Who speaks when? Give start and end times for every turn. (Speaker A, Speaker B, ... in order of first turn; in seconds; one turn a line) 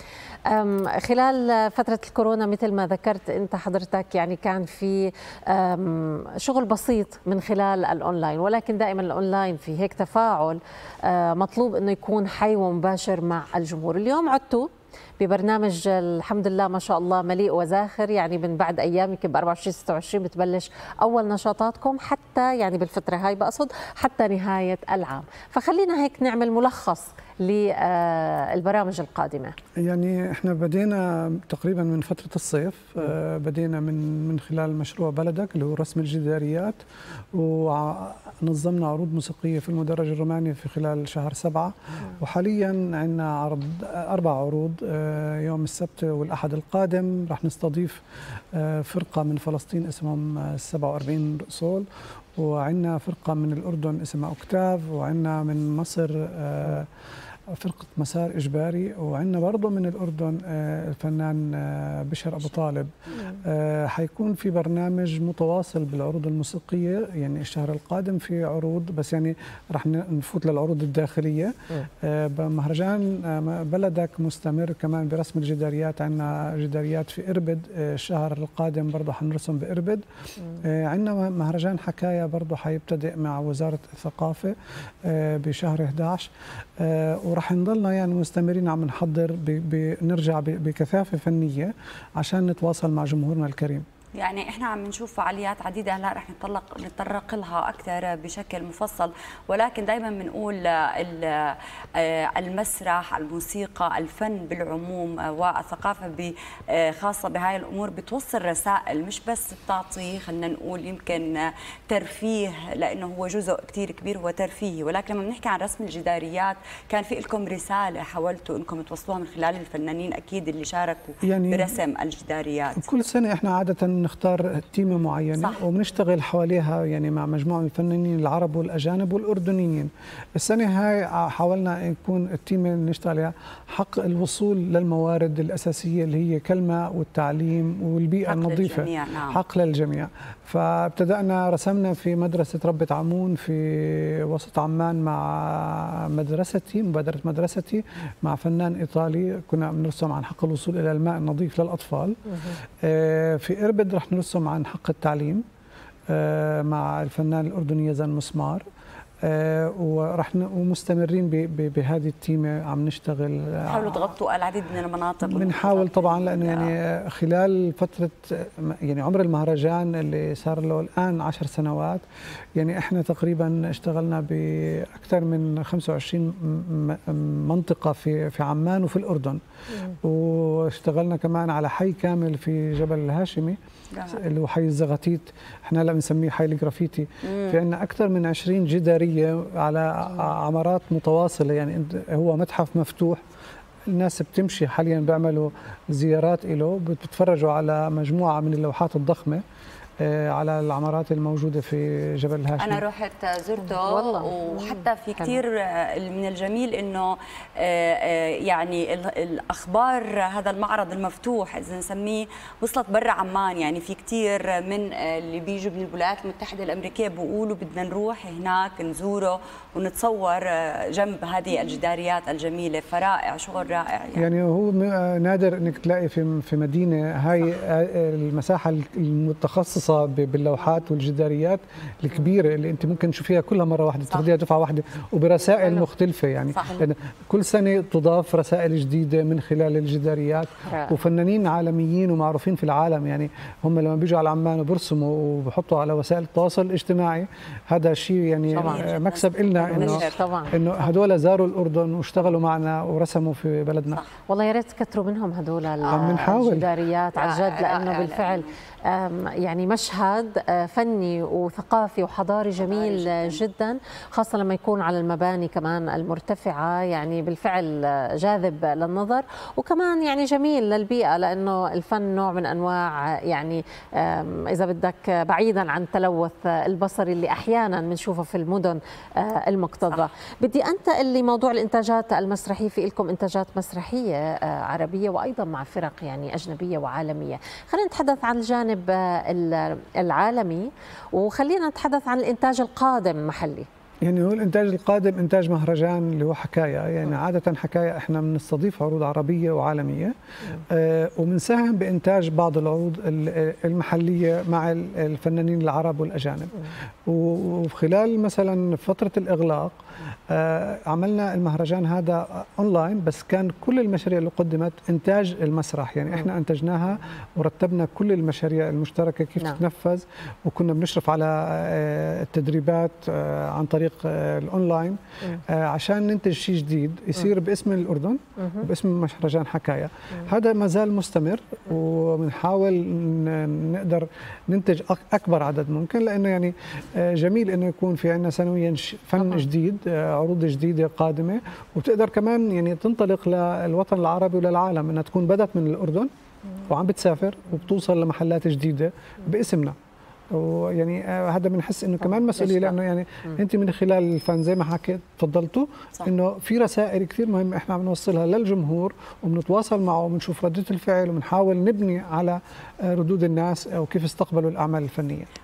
Speaker A: 0.5-29.6
Speaker B: 29.8-36.8
Speaker B: 37.3-48.0
Speaker B: 48.5-56.9
Speaker B: 57.5-80.0
Speaker B: 80.6-93.8
Speaker C: 94.2-122.9
Speaker B: 121.2-121.7
Speaker B: 122.8-155.4
Speaker C: 138.3-139.4
Speaker B: 156.1-158.7
Speaker B: 159.2-164.2
Speaker C: 163.7-166.8
Speaker B: 165.2-172.0
Speaker B: 172.6-183.6
Speaker C: 183.9-184.2
Speaker B: 184.1-193.2
Speaker C: 187.2-187.6
Speaker B: 193.9-199.4
Speaker B: 200.0-202.8
Speaker C: 202.6-224.3
Speaker A: 203.7-205.4
Speaker B: 224.2-254.0
Speaker C: 236.5-236.9
Speaker A: 240.7-241.0
Speaker C: 248.5-250.2
Speaker A: 248.6-248.9
Speaker A: 249.6-250.6
Speaker A: 254.3-293.7
Speaker C: 255.9-256.3
Speaker B: 255.9-256.7
Speaker C: 257.1-258.5
Speaker C: 262.6-263.4
Speaker B: 294.0-300.1
Speaker B: 300.7-309.8
Speaker B: 310.3-346.1
Speaker A: 328.4-328.7
Speaker B: 346.7-349.8
Speaker B: 350.3-365.3
Speaker A: 352.1-352.8